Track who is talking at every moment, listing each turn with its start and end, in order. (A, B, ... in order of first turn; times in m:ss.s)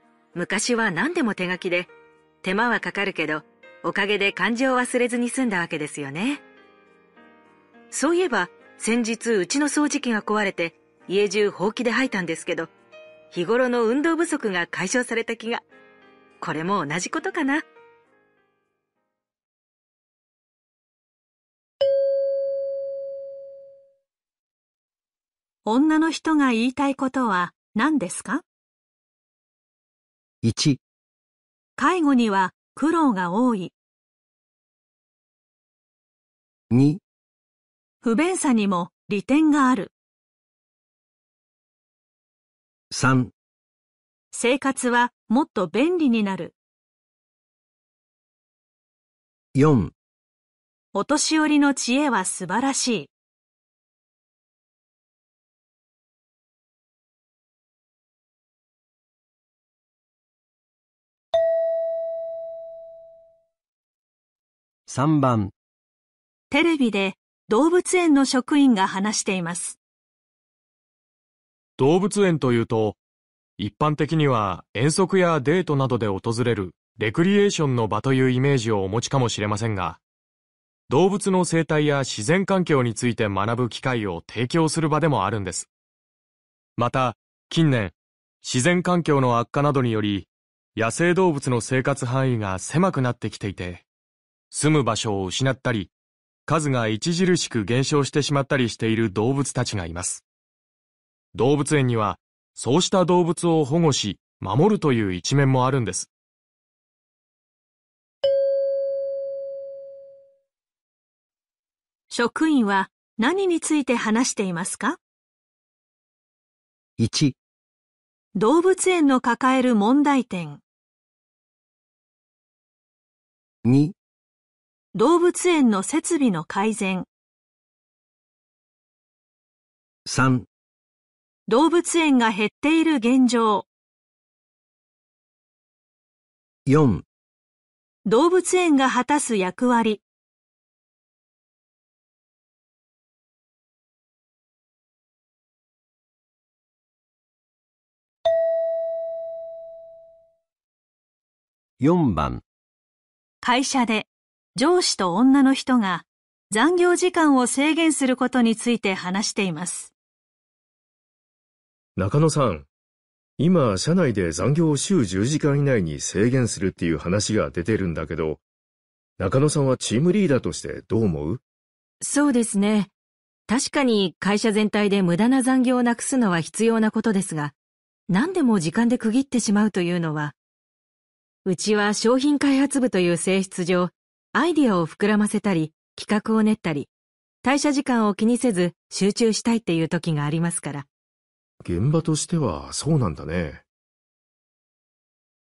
0:00.4-0:01.9 A
0:02.4-0:06.4 A
0:07.9-0:12.7 A
0:13.3-0:15.6 A
0:16.4-0:17.6 A
0:25.6-0:28.4 B
0:30.4-0:30.8 C
0:31.8-0:33.7 B
0:36.7-0:37.0 C
0:38.0-0:39.9 B
0:42.9-0:43.3 C
0:44.3-0:46.6 B
0:49.6-0:49.9 C
0:50.9-0:53.1 B
1:04.9-1:05.5 C
1:06.5-1:09.8 B
1:11.8-1:13.0 D
1:13.6-1:20.0 D
1:20.9-1:25.7 D
1:26.8-1:33.8 D
1:34.5-1:35.9 D
1:36.5-1:40.2 D
1:41.3-1:46.1 D
1:52.1-1:55.0 B
1:57.0-1:57.4 C
1:58.4-2:00.6 B
2:03.6-2:03.9 C
2:04.9-2:07.1 B
2:10.1-2:10.5 C
2:11.5-2:13.7 B
2:16.7-2:17.0 C
2:18.1-2:20.0 B
2:31.8-2:32.4 C
2:33.4-2:39.9 B
2:42.0-2:42.7 E
2:43.4-2:48.4 E
2:49.2-2:51.4 E
2:52.0-2:52.9 A
2:53.5-2:57.6 A
2:58.1-3:00.4 A
3:01.5-3:06.9 A
3:07.4-3:10.9 A
3:11.6-3:13.6 E